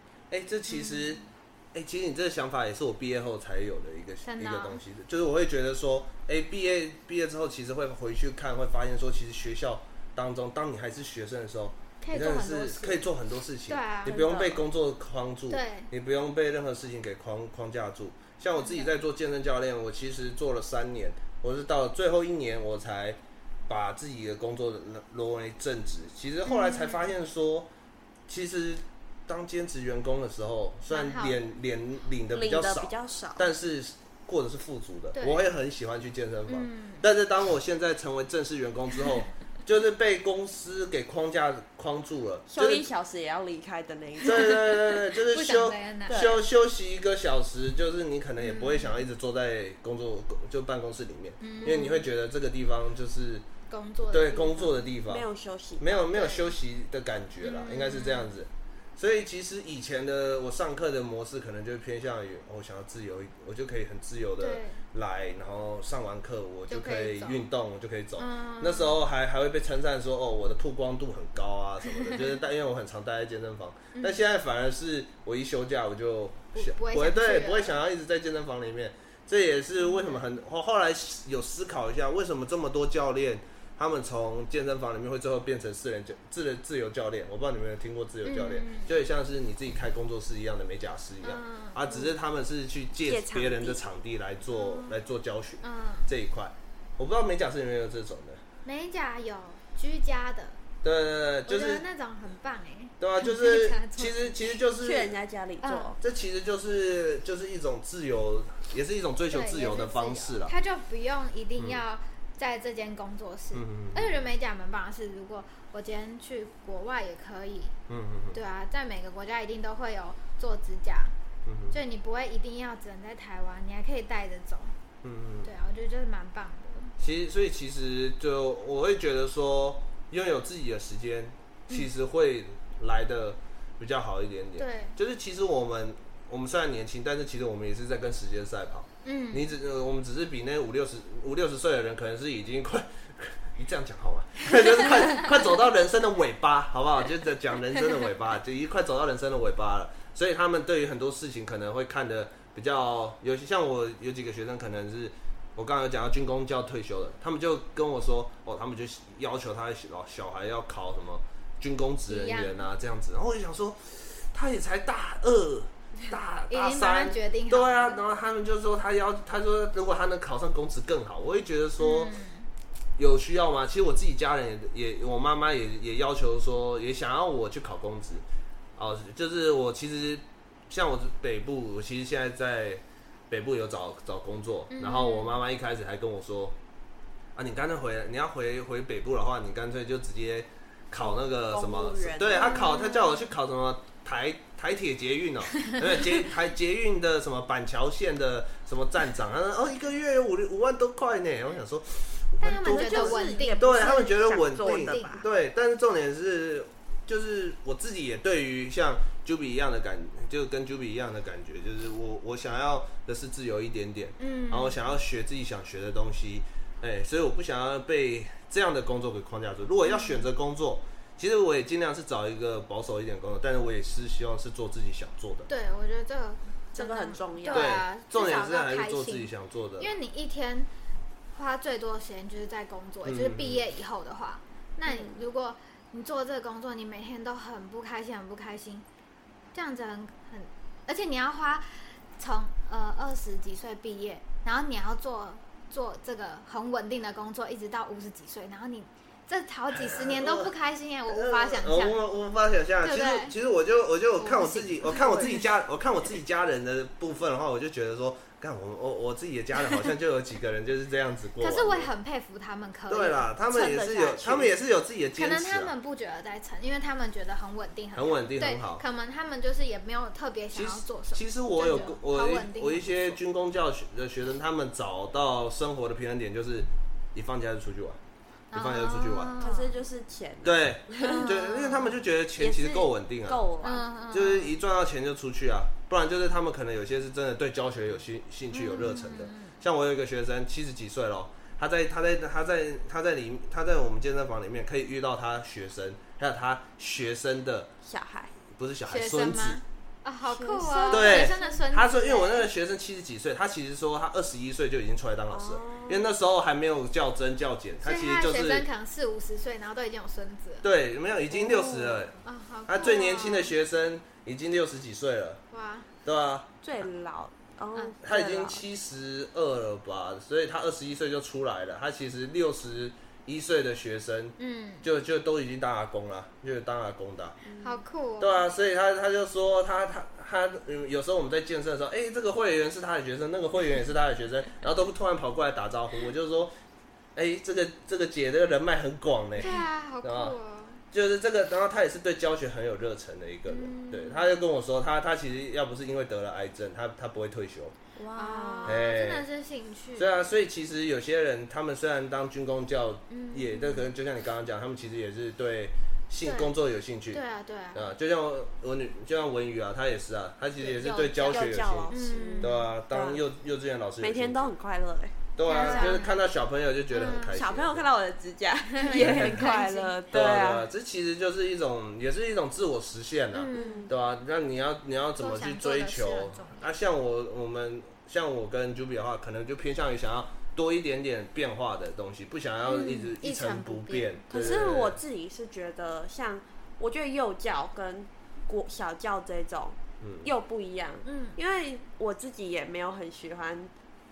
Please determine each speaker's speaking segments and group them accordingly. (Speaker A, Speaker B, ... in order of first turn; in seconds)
Speaker A: 0.3-27.7, 28.3-42.9, 44.2-53.5, 54.1-55.3, 55.8-98.4, 100.8-101.8, 103.0-105.1, 106.0-110.5, 113.5-114.2, 117.9-118.4, 121.5-121.8, 125.0-125.5, 127.0-172.1, 173.0-178.2, 178.8-186.6, 187.3-225.5, 227.5-229.9, 233.1-233.6, 249.7-250.5, 251.1-261.9, 262.9-265.7, 267.9-268.8, 270.5-278.0, 278.5-279.3, 280.4-283.5, 284.1-297.7, 298.6-299.6, 300.9-308.7, 310.6-315.4, 316.1-316.5, 318.0-327.4, 328.2-336.6, 337.1-340.4, 340.9-347.7, 348.6-349.2, 349.9-357.2, 357.7-364.5, 365.4-367.9, 368.9-369.5, 370.1-385.0, 390.0-390.3
Speaker B: 0.7-1.2, 4.2-4.8, 12.0-13.1, 13.7-14.2, 15.5-15.9, 18.6-18.9, 26.4-27.1, 30.9-31.4, 35.1-35.5, 36.5-37.1, 44.3-46.2, 48.4-49.0, 51.4-52.0, 53.7-54.9, 56.1-56.5, 57.4-58.4, 64.4-64.8, 66.7-67.5, 68.2-69.0, 73.9-74.2, 76.5-77.7, 79.8-80.3, 88.2-89.0, 91.2-92.1, 94.5-95.0, 95.6-96.1, 98.6-100.6, 101.5-104.4, 105.6-106.0, 109.3-117.8, 118.3-121.1, 121.7-124.8, 125.4-126.9, 134.6-135.0, 139.0-139.5, 162.1-162.6, 166.5-168.0, 171.8-172.5, 184.7-185.4, 192.2-193.3, 202.4-205.2, 214.2-214.9, 219.8-220.3, 225.5-230.7, 231.3-238.8, 239.5-252.0, 252.8-253.3, 254.2-255.4, 261.4-263.7, 265.2-273.2, 278.5-279.7, 281.0-282.0, 283.6-284.6, 288.5-289.6, 298.9-302.5, 307.8-310.7, 312.2-313.5, 315.5-315.9, 324.4-324.9, 327.6-328.4, 339.4-340.8, 343.5-344.3, 348.2-350.1, 353.1-353.9, 356.2-356.5, 357.1-357.9, 360.7-362.7, 365.4-366.2, 366.9-367.4, 368.8-369.9, 373.3-373.9, 375.2-376.7, 382.6-384.2, 391.1-391.4
Speaker C: 14.1-14.6, 32.3-33.5, 42.5-44.6, 46.1-46.4, 51.6-52.0, 55.1-56.1, 93.1-93.8, 104.8-106.0, 191.0-192.6, 202.6-205.2, 226.7-227.8, 234.9-235.2, 263.5-264.5, 279.4-281.4, 282.4-283.9, 297.8-298.4, 300.3-301.6, 305.3-306.1, 311.3-312.1, 316.6-318.6, 327.4-327.8, 347.9-348.8, 360.6-363.2, 364.0-366.0, 367.3-370.7, 373.5-373.9, 382.7-383.1, 384.3-393.7